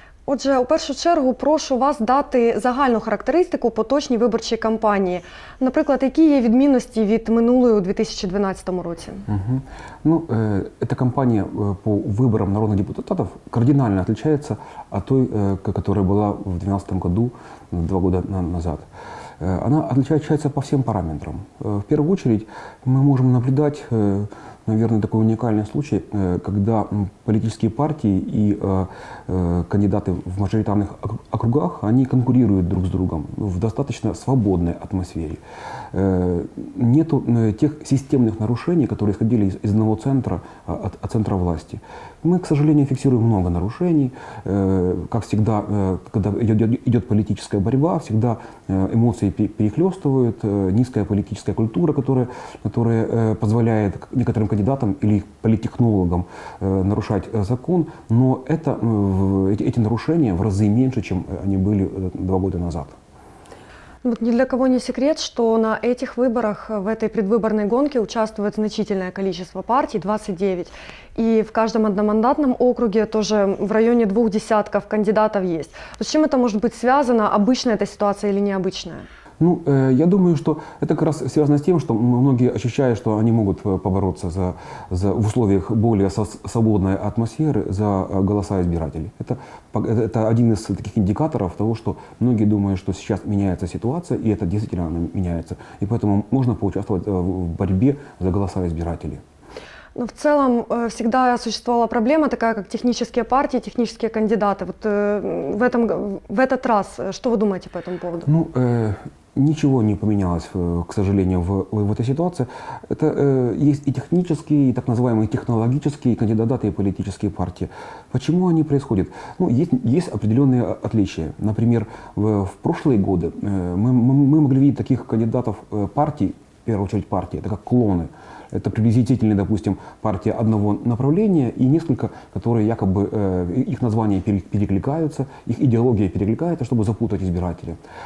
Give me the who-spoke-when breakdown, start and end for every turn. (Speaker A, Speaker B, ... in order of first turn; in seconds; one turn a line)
Speaker A: 0.3-9.3
Speaker B: 9.3-18.9
Speaker B: 19.4-35.4
Speaker B: 35.9-62.9
Speaker A: 64.0-79.1
Speaker B: 79.4-99.2
Speaker A: 100.0-108.3
Speaker B: 108.3-137.8